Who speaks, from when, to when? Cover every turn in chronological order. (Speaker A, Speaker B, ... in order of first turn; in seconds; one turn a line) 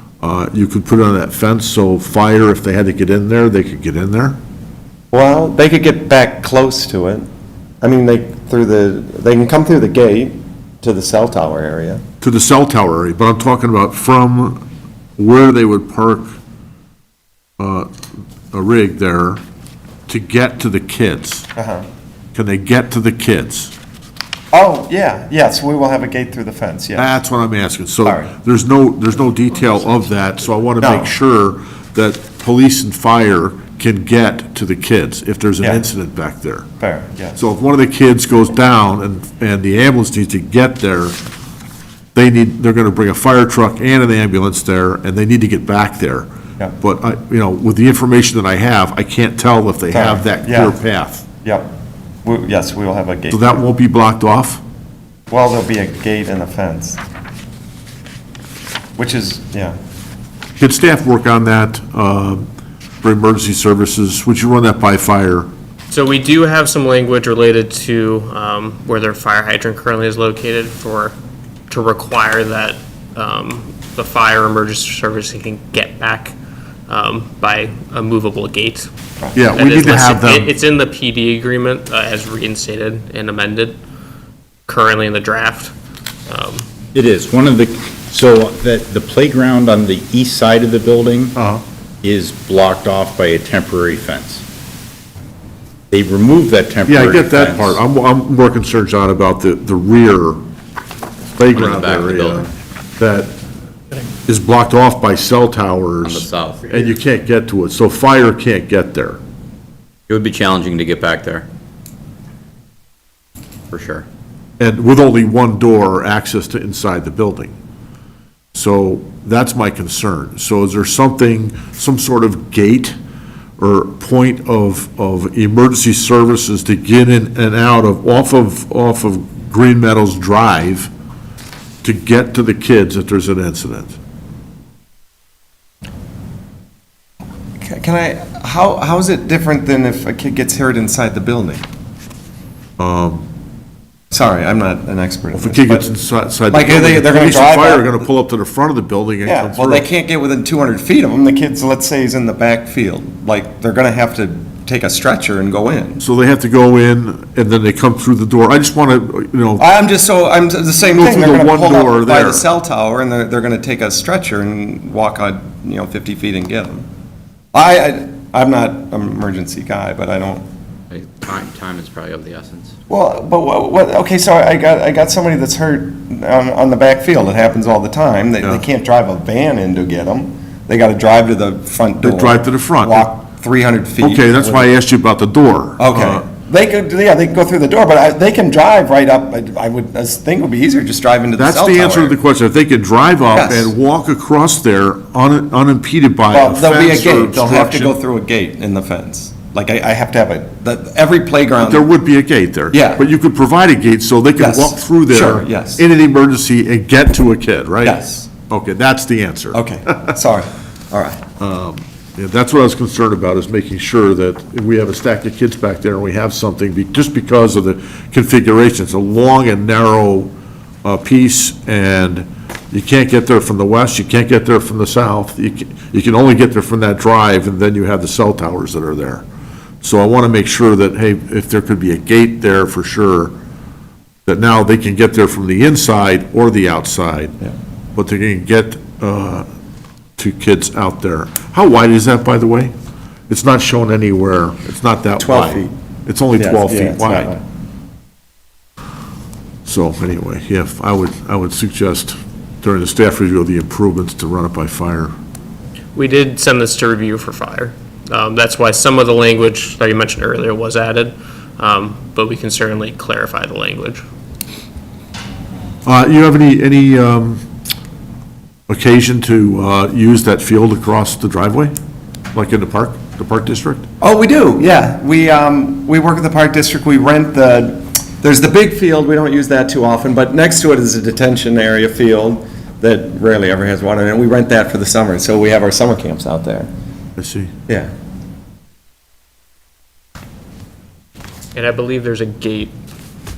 Speaker A: 0.2-4.4
Speaker B: 5.1-7.3
Speaker B: 7.8-12.0
Speaker A: 12.2-14.6
Speaker A: 15.2-16.3
Speaker A: 17.6-17.9
Speaker A: 18.5-19.4
Speaker A: 20.1-21.5
Speaker B: 21.6-21.8
Speaker A: 22.3-23.7
Speaker B: 24.5-27.2
Speaker A: 27.0-36.7
Speaker B: 28.0-28.3
Speaker B: 30.8-31.1
Speaker B: 36.8-37.4
Speaker A: 37.4-41.2
Speaker A: 42.1-46.3
Speaker A: 46.8-51.2
Speaker B: 49.9-50.8
Speaker B: 51.4-51.7
Speaker B: 52.2-53.5
Speaker A: 53.3-54.6
Speaker B: 55.3-57.0
Speaker B: 59.0-59.7
Speaker A: 60.6-62.5
Speaker A: 63.0-65.5
Speaker C: 65.9-71.1
Speaker C: 71.7-76.3
Speaker C: 76.9-78.9
Speaker A: 79.3-80.5
Speaker C: 79.5-83.8
Speaker C: 84.7-85.7
Speaker C: 86.3-86.7
Speaker D: 86.9-91.3
Speaker A: 91.3-91.6
Speaker D: 92.0-94.4
Speaker D: 95.9-97.8
Speaker A: 96.9-100.4
Speaker A: 101.3-103.3
Speaker E: 101.8-102.5
Speaker A: 104.2-109.2
Speaker E: 106.1-106.7
Speaker E: 110.1-111.5
Speaker E: 113.7-114.0
Speaker A: 114.6-117.5
Speaker A: 118.5-123.0
Speaker A: 123.6-130.9
Speaker A: 131.8-133.9
Speaker B: 137.6-141.6
Speaker A: 142.8-143.3
Speaker B: 144.1-145.9
Speaker A: 145.3-149.9
Speaker B: 146.5-148.0
Speaker B: 149.2-156.0
Speaker A: 156.0-159.6
Speaker B: 159.6-166.9
Speaker A: 160.9-162.4
Speaker B: 167.5-170.4
Speaker E: 170.9-172.7
Speaker B: 172.9-184.7
Speaker A: 182.0-183.1
Speaker A: 184.0-186.2
Speaker B: 185.8-192.2
Speaker A: 191.4-197.9
Speaker B: 193.3-193.7
Speaker B: 196.3-201.9
Speaker A: 201.6-210.1
Speaker B: 202.7-203.1
Speaker B: 204.4-205.8
Speaker B: 207.8-208.3
Speaker B: 209.5-211.2
Speaker A: 211.4-220.3
Speaker A: 220.8-229.2
Speaker A: 229.8-233.3
Speaker A: 234.2-237.4
Speaker A: 237.9-239.4
Speaker A: 240.2-242.7
Speaker A: 243.3-247.4
Speaker B: 245.2-245.7
Speaker B: 246.4-247.4
Speaker A: 249.6-255.1
Speaker C: 255.9-264.0
Speaker A: 265.8-267.4
Speaker A: 268.7-271.7
Speaker A: 272.3-273.9
Speaker B: 274.0-286.7
Speaker A: 287.2-287.5
Speaker C: 291.5-292.7